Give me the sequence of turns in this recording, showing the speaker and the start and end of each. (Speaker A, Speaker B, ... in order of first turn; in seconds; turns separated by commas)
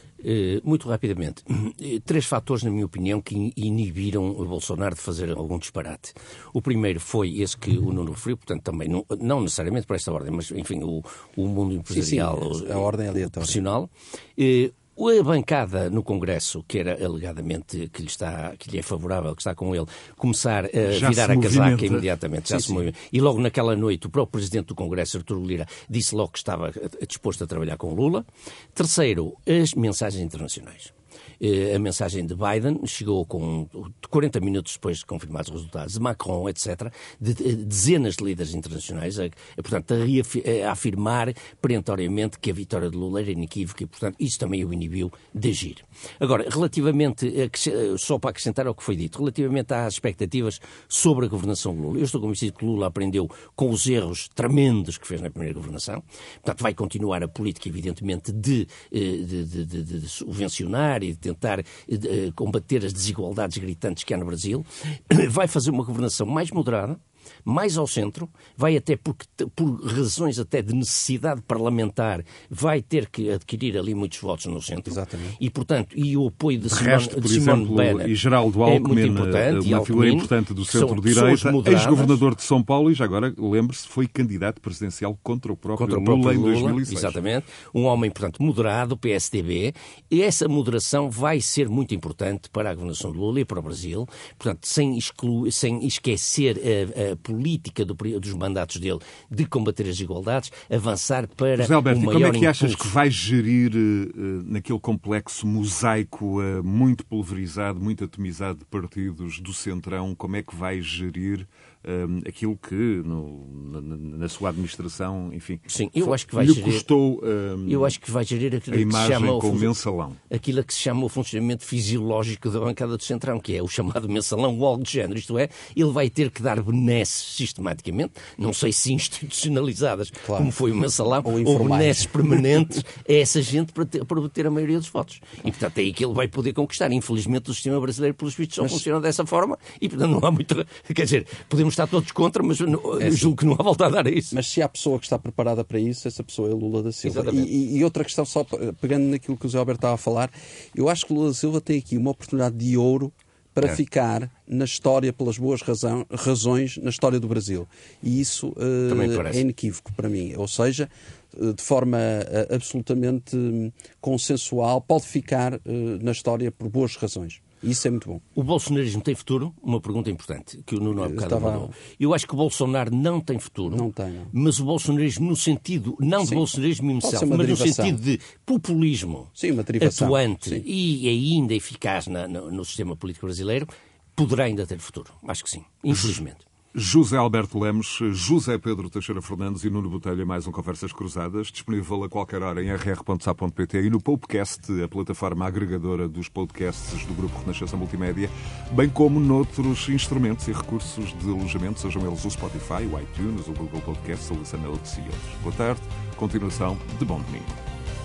Speaker A: 0.2-82.2, Speaker B: 11.9-13.6, Speaker C: 20.9-22.1, Speaker B: 22.5-22.8, Speaker B: 74.8-75.4, Speaker C: 76.7-87.2, Speaker A: 85.8-102.9, Speaker C: 101.6-117.9, Speaker A: 115.7-116.8, Speaker A: 117.7-119.7, Speaker C: 118.7-120.2, Speaker A: 120.3-144.3, Speaker B: 130.2-130.5, Speaker B: 131.2-132.4, Speaker B: 143.0-143.3, Speaker B: 144.3-168.2, Speaker A: 147.0-147.5, Speaker A: 158.9-159.4, Speaker A: 168.3-186.4, Speaker B: 170.9-171.7, Speaker B: 173.7-174.3, Speaker B: 177.0-178.0, Speaker B: 179.4-180.6, Speaker C: 186.7-207.6